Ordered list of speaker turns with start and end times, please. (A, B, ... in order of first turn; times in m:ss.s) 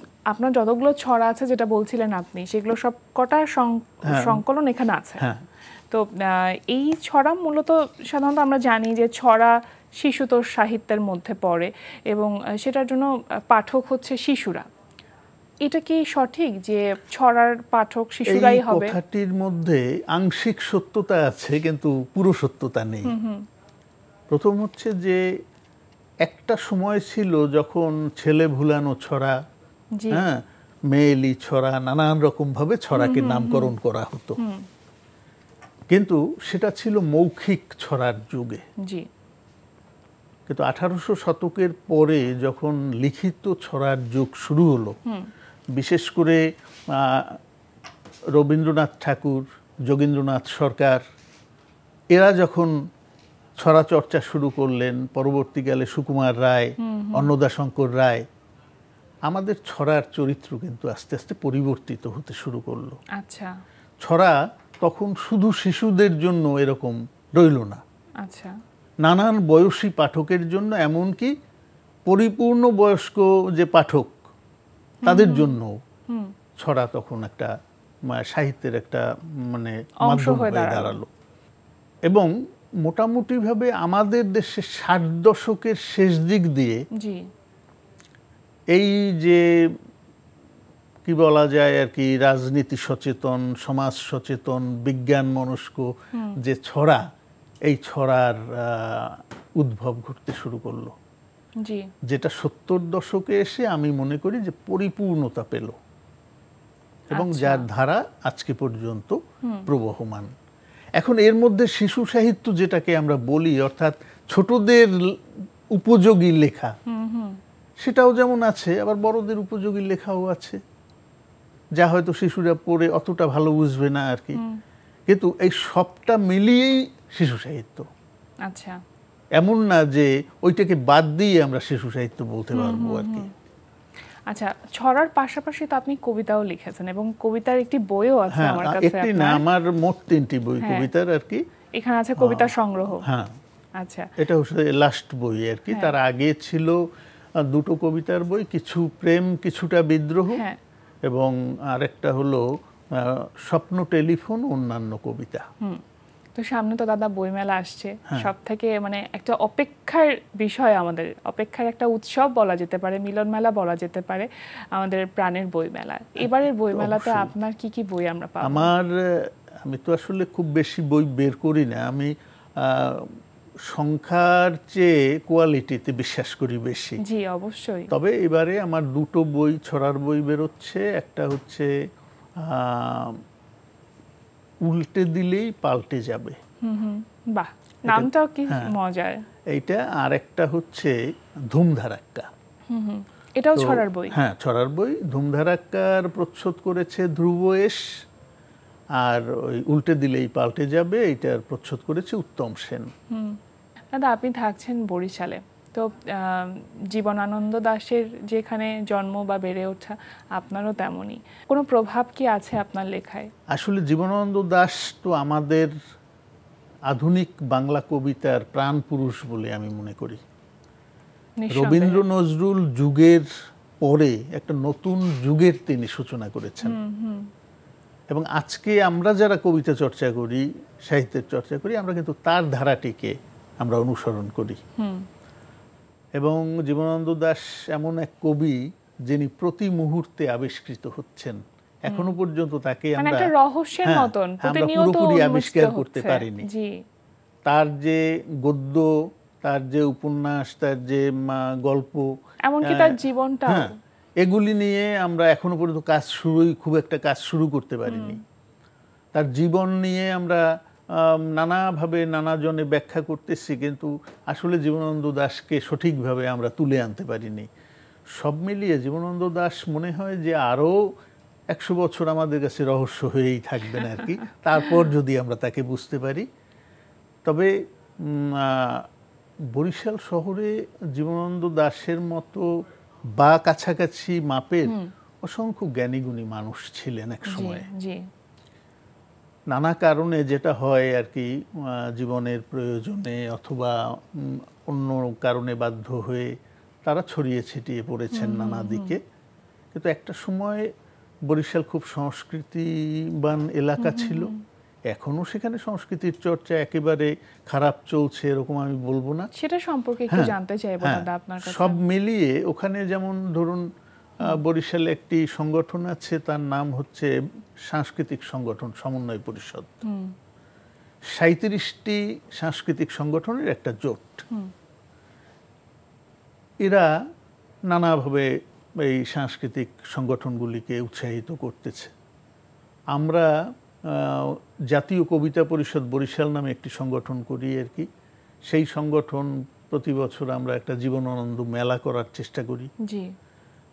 0:00.3-0:05.2 A
0:04.0-0:04.4 B
0:05.9-0:14.6 A
0:15.6-0:19.0 A
0:18.3-0:23.1 B
0:23.1-0:23.4 A
0:24.3-0:25.2 B
0:26.2-0:29.4 B
0:30.0-0:30.3 A
0:30.1-0:30.4 B
0:30.9-0:34.4 B
0:32.9-0:33.7 A
0:34.4-0:34.6 A
0:35.9-0:38.6 B
0:40.5-0:44.9 B
0:45.7-0:47.4 B
0:48.3-0:51.0 B
0:52.1-0:52.7 B
0:53.6-0:58.2 B
0:56.8-0:57.3 A
0:59.3-1:03.0 B
1:03.2-1:03.5 A
1:04.0-1:07.8 B
1:08.2-1:08.5 A
1:09.0-1:11.3 B
1:12.1-1:14.2 B
1:15.0-1:15.5 A
1:15.0-1:15.8 B
1:16.6-1:17.5 B
1:18.1-1:21.1 B
1:20.0-1:21.0 A
1:22.8-1:26.8 B
1:27.0-1:27.3 A
1:28.7-1:29.4 B
1:31.0-1:35.9 B
1:36.4-1:37.0 B
1:37.7-1:40.9 B
1:41.6-1:41.9 A
1:42.1-1:45.8 B
1:47.1-1:50.3 B
1:47.2-1:47.6 A
1:51.0-1:54.9 B
1:55.7-1:56.7 B
1:56.9-1:57.4 A
1:57.8-2:00.6 B
2:01.8-2:04.4 B
2:05.1-2:07.9 B
2:08.5-2:08.8 A
2:09.4-2:13.3 B
2:12.5-2:13.3 A
2:14.3-2:19.4 A
2:18.3-2:21.4 B
2:20.6-2:20.9 A
2:21.8-2:23.0 A
2:22.2-2:23.3 B
2:23.8-2:24.1 A
2:24.2-2:26.8 B
2:27.4-2:30.4 B
2:31.1-2:32.4 B
2:33.0-2:35.4 B
2:36.4-2:48.7 A
2:46.2-2:47.3 B
2:48.4-2:48.9 B
2:49.6-2:53.1 B
2:53.7-2:57.0 B
2:57.0-2:57.9 A
2:57.9-3:01.7 B
3:02.4-3:03.2 B
3:04.6-3:06.4 B
3:06.6-3:09.2 A
3:07.9-3:08.7 B
3:09.5-3:10.9 B
3:11.5-3:12.3 B
3:12.7-3:14.2 A
3:13.6-3:17.8 B
3:19.0-3:22.9 B
3:23.1-3:23.4 A
3:23.9-3:33.3 A
3:33.5-3:35.7 B
3:36.9-3:40.2 B
3:41.4-3:42.0 A
3:41.5-3:43.3 B
3:43.8-3:46.8 B
3:46.6-3:47.3 A
3:48.1-3:54.6 B
3:54.8-3:55.0 A
3:56.2-3:58.6 B
3:59.1-4:03.3 B
4:03.0-4:06.7 A
4:03.8-4:06.5 B
4:07.4-4:08.9 B
4:09.4-4:12.1 B
4:12.4-4:13.7 A
4:12.6-4:13.7 B
4:14.2-4:18.2 B
4:17.9-4:18.2 A
4:19.1-4:20.4 B
4:20.9-4:27.5 B
4:28.2-4:30.8 B
4:31.5-4:36.3 B
4:37.2-4:37.5 B
4:38.0-4:38.8 B
4:39.5-4:42.5 B
4:43.2-4:47.7 B
4:47.2-4:48.0 A
4:49.5-4:56.3 B
4:56.8-4:59.0 B
4:58.1-4:59.0 A
4:59.7-5:00.7 B
5:01.3-5:04.3 B
5:03.8-5:04.4 A
5:04.9-5:09.3 B
5:09.3-5:11.8 A
5:10.1-5:13.6 B
5:14.2-5:17.1 B
5:17.7-5:19.8 B
5:19.8-5:20.1 A
5:21.2-5:24.2 B
5:26.6-5:26.9 B
5:27.7-5:31.9 B
5:32.9-5:33.3 B
5:33.9-5:37.9 B
5:38.5-5:42.7 B
5:42.8-5:43.1 A